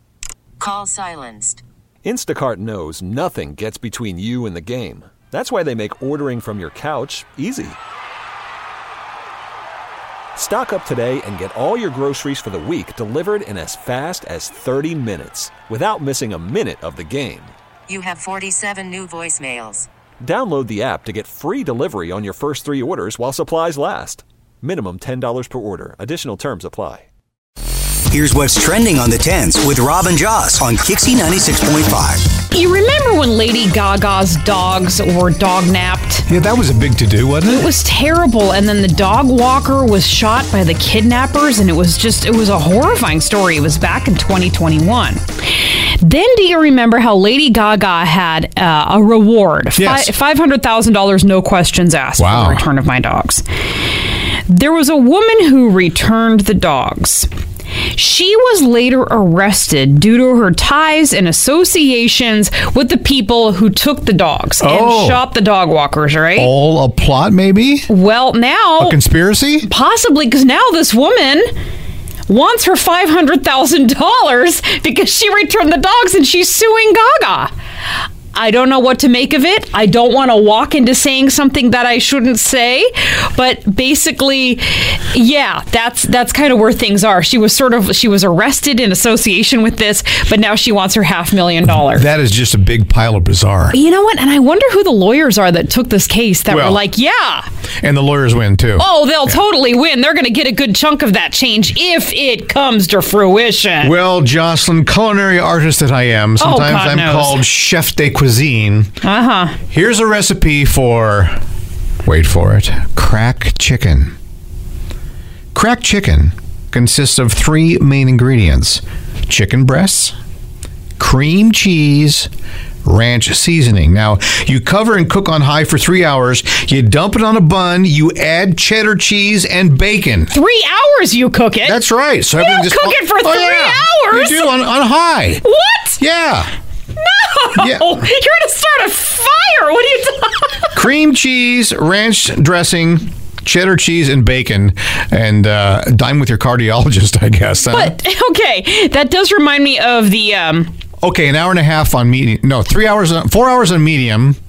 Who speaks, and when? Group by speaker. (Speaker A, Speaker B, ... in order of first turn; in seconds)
Speaker A: 0.6-1.6, 17.9-19.9
Speaker B: 2.0-7.8, 10.3-17.5, 20.2-27.1
Speaker C: 28.1-32.3
Speaker D: 32.5-36.3, 37.5-53.4, 54.5-57.3, 57.9-66.5, 67.9-69.0, 69.6-71.5, 72.3-77.5, 78.3-92.1, 93.7-97.5, 98.8-103.9, 106.4-107.4, 109.0-109.5, 130.3-131.8, 132.3-134.6, 135.4-136.0, 136.9-140.8, 147.7-150.7
Speaker E: 36.3-37.7, 49.8-50.1, 52.2-52.6, 64.6-65.2, 66.3-67.9, 68.8-69.7, 91.6-93.8, 96.5-96.8, 97.8-99.4, 103.8-108.9, 109.7-111.4, 112.0-114.1, 115.5-120.1, 121.0-122.3, 122.8-130.3, 131.6-135.4, 136.0-136.5, 137.6-137.9, 140.7-147.9, 151.0-154.4